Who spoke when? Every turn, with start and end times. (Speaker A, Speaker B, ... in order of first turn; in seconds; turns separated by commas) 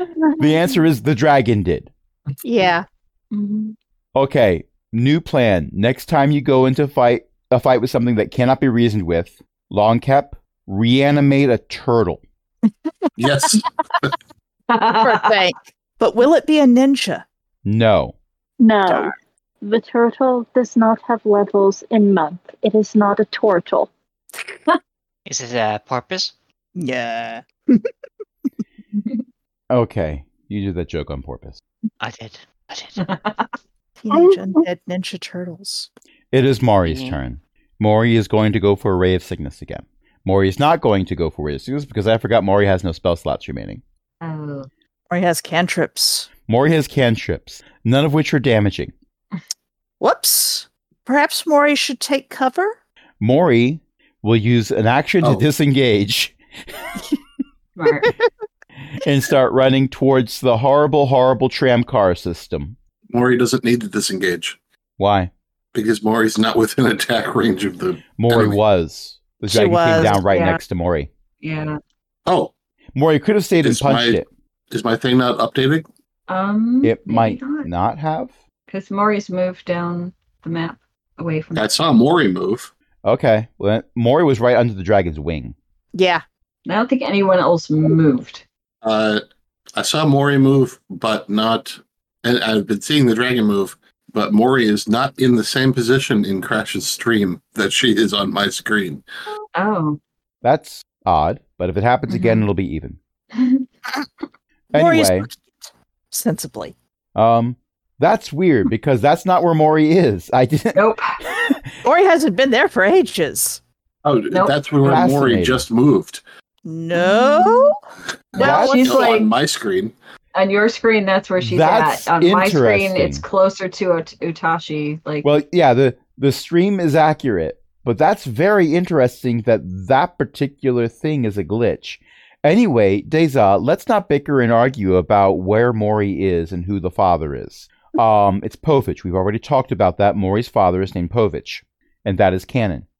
Speaker A: 0.4-1.9, Speaker B: 2.4-2.9, Speaker C: 3.3-3.8, Speaker A: 4.1-12.2, Speaker D: 13.2-14.1, Speaker C: 14.7-15.4, Speaker B: 14.9-17.2, Speaker A: 17.6-18.1, Speaker E: 18.6-23.9, Speaker B: 18.9-19.1, Speaker F: 25.2-26.3, Speaker B: 26.8-27.9, Speaker C: 28.9-29.2, Speaker A: 29.7-31.6, Speaker F: 32.0-33.0, Speaker C: 33.0-33.5, Speaker B: 34.0-35.9, Speaker A: 36.3-43.8, Speaker F: 36.8-37.2, Speaker C: 44.2-44.7, Speaker B: 45.1-46.3, Speaker A: 46.5-48.9, Speaker B: 50.0-52.8, Speaker A: 53.2-56.4, Speaker C: 57.8-58.1, Speaker A: 58.9-62.8, Speaker D: 63.1-64.6, Speaker A: 65.0-65.3, Speaker D: 65.7-68.6, Speaker A: 68.2-71.1, Speaker B: 69.5-70.2, Speaker C: 69.9-70.6, Speaker C: 71.4-71.8, Speaker D: 72.2-72.5, Speaker A: 72.9-74.3, Speaker D: 73.6-75.9, Speaker C: 76.3-77.7, Speaker A: 76.8-78.3, Speaker C: 78.7-81.7, Speaker D: 81.5-82.7, Speaker A: 83.0-85.5, Speaker B: 85.9-86.2, Speaker C: 86.7-88.4, Speaker D: 88.8-89.2, Speaker D: 89.8-99.0, Speaker C: 99.5-100.0, Speaker A: 100.4-103.0, Speaker C: 102.1-102.5, Speaker C: 103.3-103.6, Speaker A: 104.7-105.3, Speaker B: 104.7-105.4, Speaker B: 106.1-106.7, Speaker A: 107.1-111.6, Speaker C: 110.7-111.2, Speaker B: 111.8-113.6, Speaker D: 114.0-116.2, Speaker C: 114.3-115.0, Speaker A: 114.8-115.7, Speaker B: 116.6-117.8, Speaker C: 116.9-117.7, Speaker D: 118.3-119.9, Speaker C: 118.3-119.3, Speaker A: 118.4-119.0, Speaker B: 118.4-119.1, Speaker C: 120.3-125.3, Speaker A: 121.4-123.2, Speaker A: 125.2-142.8